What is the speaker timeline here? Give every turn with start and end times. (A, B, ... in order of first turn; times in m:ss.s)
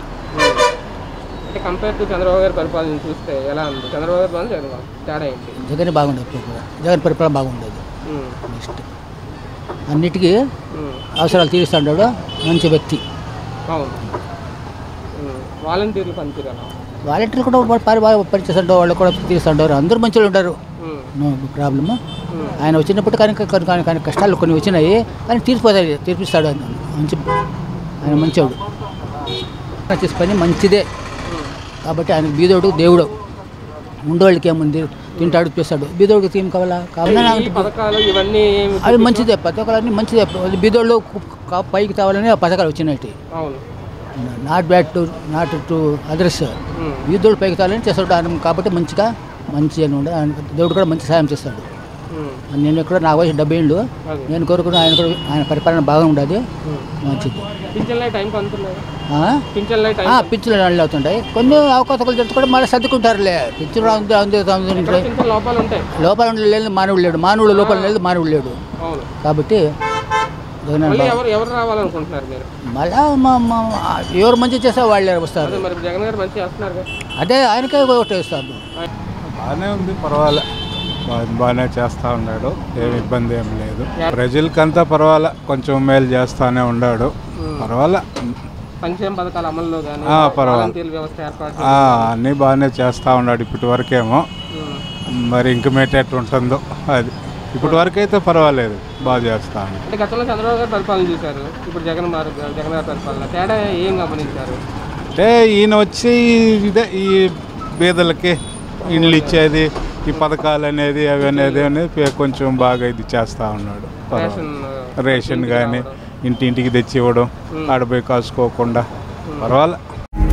0:00.3-0:00.6 A
0:01.5-0:05.6 A
0:05.6-0:07.8 B
0:08.1-0:08.4 A
0:08.5-0:08.8 B
0:09.9-0:10.3 B
0:10.7-0:11.0 A
0:11.2-0:13.0 B
0:13.7-0:14.0 A
0:15.2-0:16.7 A
0:17.0-0:20.6 B
0:20.8-0:21.1 A
0:21.2-0:22.0 B
0:22.3-0:22.6 A
0:22.6-0:27.2 B
0:28.0-0:28.6 B
0:28.0-0:28.3 A
0:29.9-0:30.9 B
0:31.8-0:33.1 B
0:34.0-0:37.7 B
0:35.2-0:35.4 A
0:37.0-0:39.3 A
0:38.8-0:43.2 B
0:43.3-0:43.6 A
0:44.2-0:46.5 B
0:46.7-0:47.0 A
0:47.1-0:51.7 B
0:52.1-0:52.4 A
0:52.5-0:56.4 B
0:54.0-0:54.3 A
0:57.0-0:57.4 B
0:57.7-0:58.8 A
0:59.1-0:59.4 B
0:59.5-1:00.3 A
1:00.0-1:05.1 B
1:04.8-1:05.8 A
1:06.0-1:08.6 B
1:07.5-1:07.9 A
1:08.8-1:09.1 A
1:09.2-1:09.6 B
1:10.7-1:11.2 B
1:10.8-1:12.5 A
1:12.7-1:15.7 B
1:15.4-1:16.9 A
1:17.2-1:18.6 B
1:19.3-1:20.4 C
1:21.1-1:28.0 C
1:22.8-1:23.1 A
1:27.4-1:27.7 A
1:28.8-1:32.1 A
1:30.1-1:30.8 C
1:31.6-1:34.2 C
1:34.5-1:34.8 A
1:35.1-1:39.8 C
1:37.6-1:37.9 A
1:39.0-1:39.3 A
1:39.8-1:44.6 A
1:45.1-1:54.4 C
1:48.9-1:49.5 A
1:51.2-1:51.7 A
1:54.1-1:55.9 A
1:55.0-1:58.8 C
1:57.5-1:57.8 A
1:59.3-1:59.6 A
1:59.4-1:59.8 C